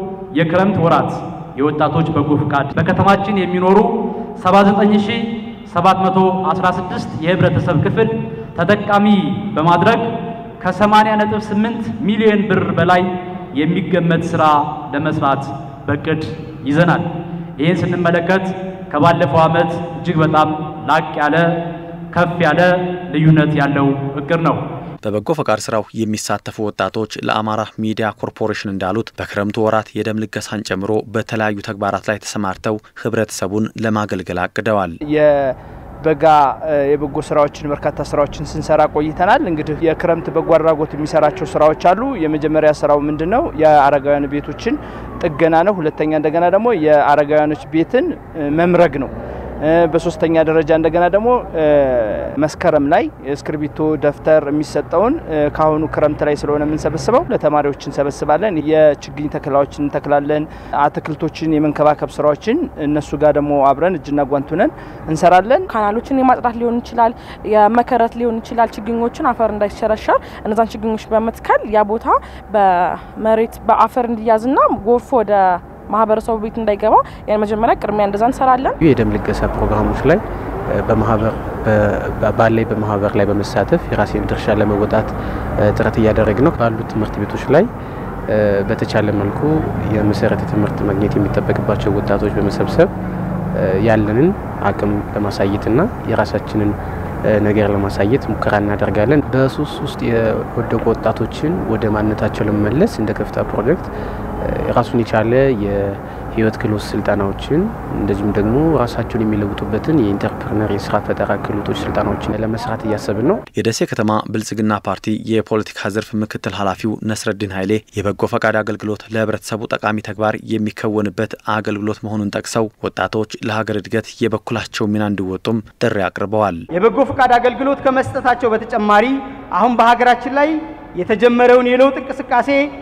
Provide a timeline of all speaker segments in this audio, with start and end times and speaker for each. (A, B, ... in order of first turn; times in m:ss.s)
0:00.3-0:21.5 A
0:22.1-0:24.6 A
0:25.0-0:35.0 B
0:35.1-0:49.1 C
0:49.7-1:05.7 C
1:05.7-1:18.8 D
1:18.8-1:20.2 E
1:20.8-1:25.1 E
1:25.7-1:27.6 E
1:28.6-1:32.9 E
1:33.8-1:36.7 E
1:37.3-1:43.8 E
1:44.6-1:53.4 E
1:53.6-2:06.6 B
2:06.8-2:12.6 F